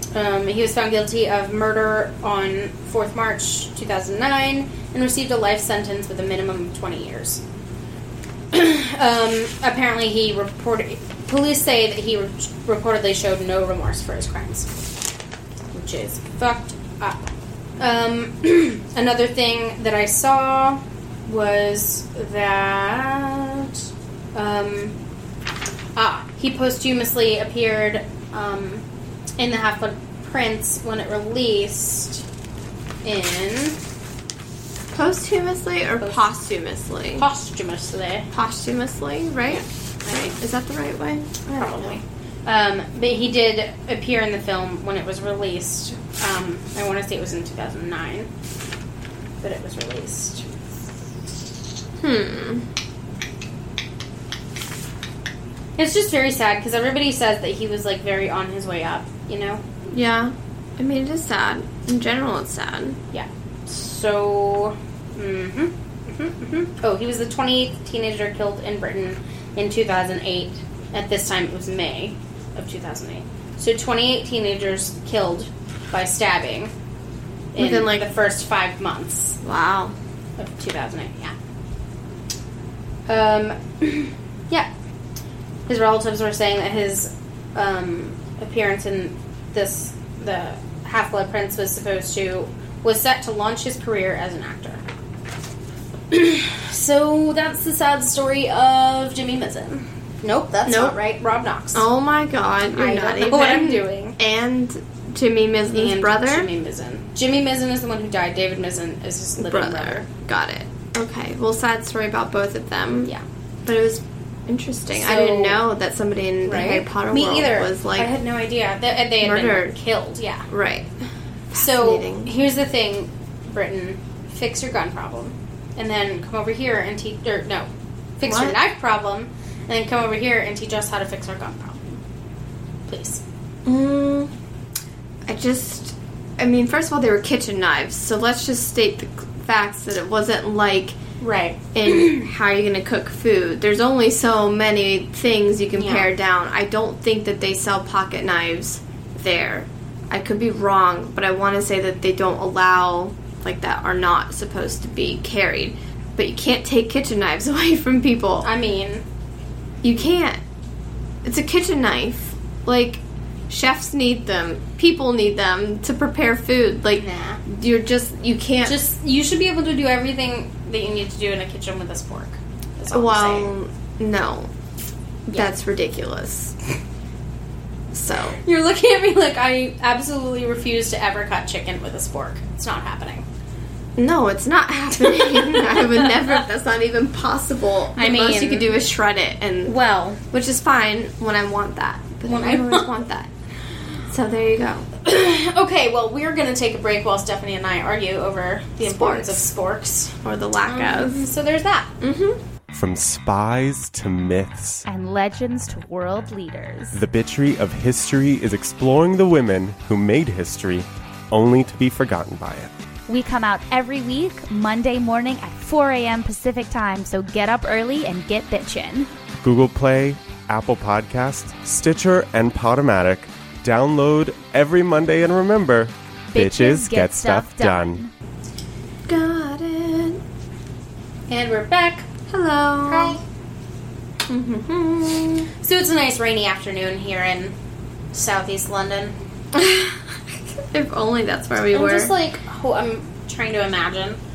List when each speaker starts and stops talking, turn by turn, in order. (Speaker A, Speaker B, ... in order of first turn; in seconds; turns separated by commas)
Speaker A: 0.1-7.4, Speaker A: 8.5-14.7, Speaker A: 15.7-24.9, Speaker A: 25.9-28.8, Speaker A: 29.4-32.2, Speaker A: 33.0-33.8, Speaker B: 34.9-37.2, Speaker A: 37.2-38.3, Speaker B: 38.3-42.0, Speaker A: 39.6-40.3, Speaker A: 41.5-48.3, Speaker A: 49.4-50.5, Speaker B: 52.0-52.6, Speaker A: 55.8-59.6, Speaker B: 59.9-63.0, Speaker A: 63.1-76.7, Speaker A: 77.5-79.4, Speaker B: 77.5-78.0, Speaker B: 79.4-79.9, Speaker A: 80.4-81.3, Speaker A: 83.1-84.7, Speaker A: 85.7-94.8, Speaker A: 96.1-101.9, Speaker B: 100.7-100.9, Speaker B: 101.7-106.5, Speaker A: 102.7-104.2, Speaker A: 105.7-110.0, Speaker B: 109.4-113.1, Speaker B: 113.7-118.1, Speaker A: 114.9-115.6, Speaker A: 116.4-120.4, Speaker B: 119.2-119.8, Speaker B: 120.5-120.9, Speaker B: 121.5-122.3, Speaker A: 121.5-132.0, Speaker B: 128.2-128.6, Speaker A: 132.9-133.2, Speaker B: 133.6-134.3, Speaker B: 135.3-140.9, Speaker A: 141.2-142.3, Speaker B: 141.7-158.5, Speaker A: 145.8-146.1, Speaker A: 158.4-159.1, Speaker B: 159.8-160.4, Speaker B: 161.2-168.8, Speaker A: 166.9-167.4, Speaker A: 168.6-173.5, Speaker B: 172.9-174.5, Speaker B: 175.3-176.5, Speaker B: 177.9-178.4, Speaker A: 178.4-183.3, Speaker B: 184.0-189.8, Speaker A: 185.0-186.3, Speaker A: 187.9-188.8, Speaker A: 189.6-190.2, Speaker B: 190.3-193.3, Speaker A: 192.3-192.9, Speaker B: 194.1-194.9, Speaker A: 195.0-200.1, Speaker B: 198.8-199.5, Speaker B: 200.2-201.3, Speaker A: 200.7-201.9, Speaker B: 202.0-202.4, Speaker C: 202.7-204.8, Speaker D: 204.9-206.9, Speaker C: 206.9-212.7, Speaker D: 213.1-219.1, Speaker C: 219.4-228.1, Speaker D: 226.3-228.1, Speaker B: 229.1-230.2, Speaker A: 231.3-232.1, Speaker B: 232.3-233.2, Speaker A: 232.8-233.2, Speaker B: 234.3-235.5, Speaker A: 235.6-237.5, Speaker A: 238.1-239.2, Speaker B: 239.5-242.1, Speaker A: 241.7-244.2